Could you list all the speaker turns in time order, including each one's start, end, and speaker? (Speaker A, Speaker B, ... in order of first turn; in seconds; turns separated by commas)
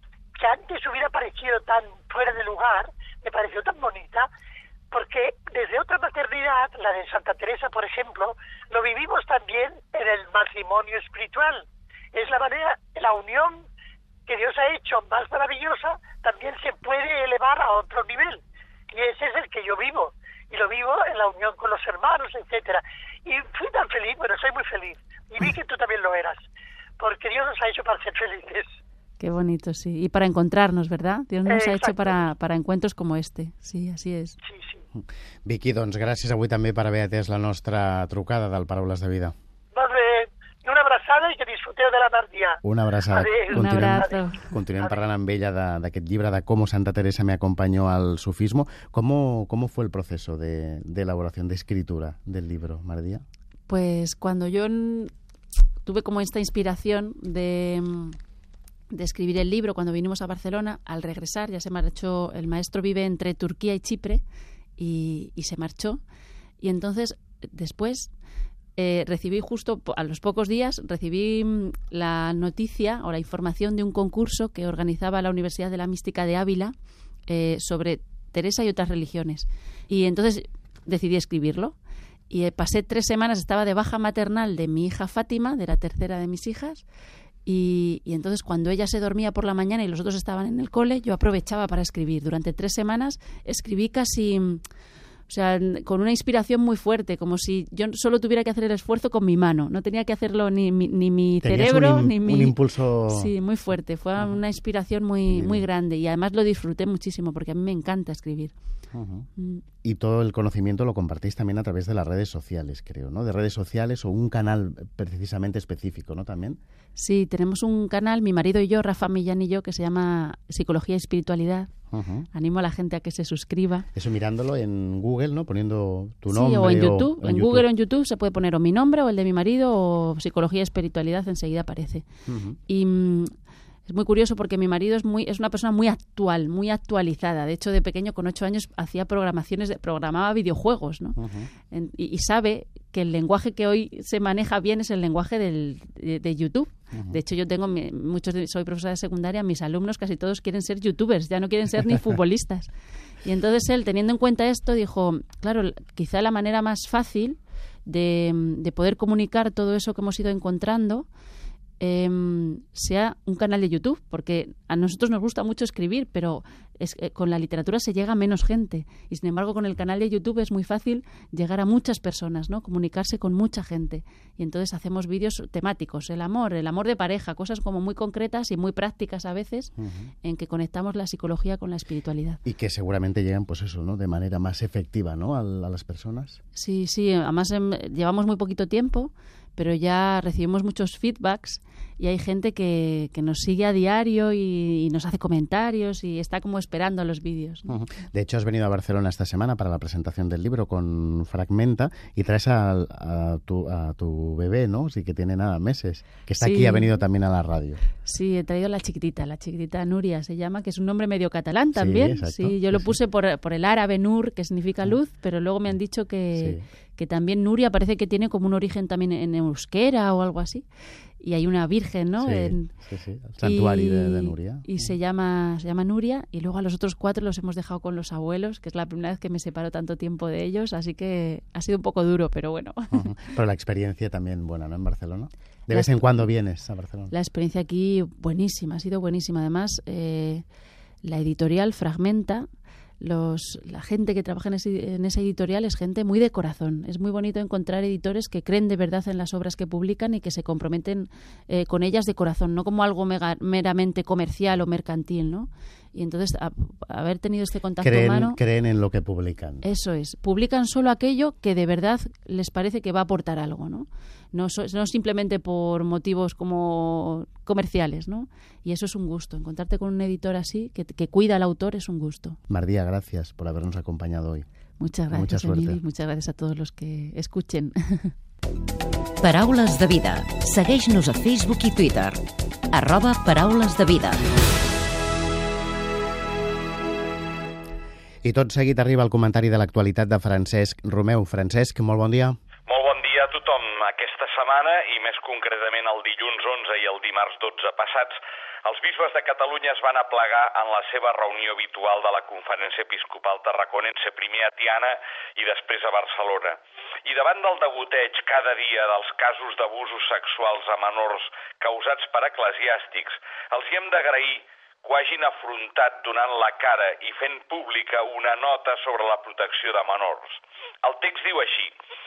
Speaker A: 0.4-4.3, Speaker A: 4.9-13.7, Speaker A: 14.3-18.4, Speaker A: 18.9-26.4, Speaker A: 27.0-28.7, Speaker B: 29.2-34.4, Speaker A: 31.5-32.2, Speaker A: 34.5-34.8, Speaker C: 35.0-39.4, Speaker A: 39.7-42.6, Speaker C: 42.6-53.2, Speaker A: 43.1-44.2, Speaker B: 43.5-44.5, Speaker B: 53.7-55.1, Speaker B: 55.8-58.2, Speaker B: 58.9-64.2, Speaker B: 64.8-66.0, Speaker B: 66.6-68.1, Speaker B: 68.8-76.7, Speaker B: 77.3-81.8, Speaker B: 82.3-86.8, Speaker B: 87.5-94.6, Speaker B: 95.3-102.5, Speaker C: 101.4-103.3, Speaker B: 103.1-108.5, Speaker C: 105.3-105.6, Speaker C: 108.9-109.3, Speaker C: 109.8-116.6, Speaker B: 117.0-121.7, Speaker C: 121.9-122.3, Speaker B: 122.3-123.9, Speaker C: 123.9-127.7, Speaker B: 126.3-132.1, Speaker C: 132.3-132.6, Speaker B: 132.7-133.3, Speaker B: 133.9-141.2, Speaker C: 141.2-141.5, Speaker B: 141.7-152.7, Speaker B: 153.2-161.1, Speaker B: 161.8-182.4, Speaker C: 179.8-180.1, Speaker C: 182.4-186.4, Speaker B: 186.6-197.7, Speaker C: 197.7-207.8, Speaker B: 206.4-206.9, Speaker B: 208.0-220.7, Speaker C: 211.8-213.0, Speaker C: 216.4-216.7, Speaker B: 221.2-222.7, Speaker C: 222.2-224.9, Speaker B: 223.4-233.1, Speaker C: 232.9-237.1, Speaker B: 235.7-236.1, Speaker B: 237.1-240.4, Speaker B: 241.0-242.5, Speaker B: 243.0-258.4, Speaker C: 257.8-259.6, Speaker B: 259.6-272.4, Speaker C: 272.5-274.5, Speaker B: 274.8-278.1, Speaker C: 275.1-275.8, Speaker D: 279.2-282.2, Speaker D: 282.7-284.3, Speaker C: 288.2-292.4, Speaker E: 292.7-321.8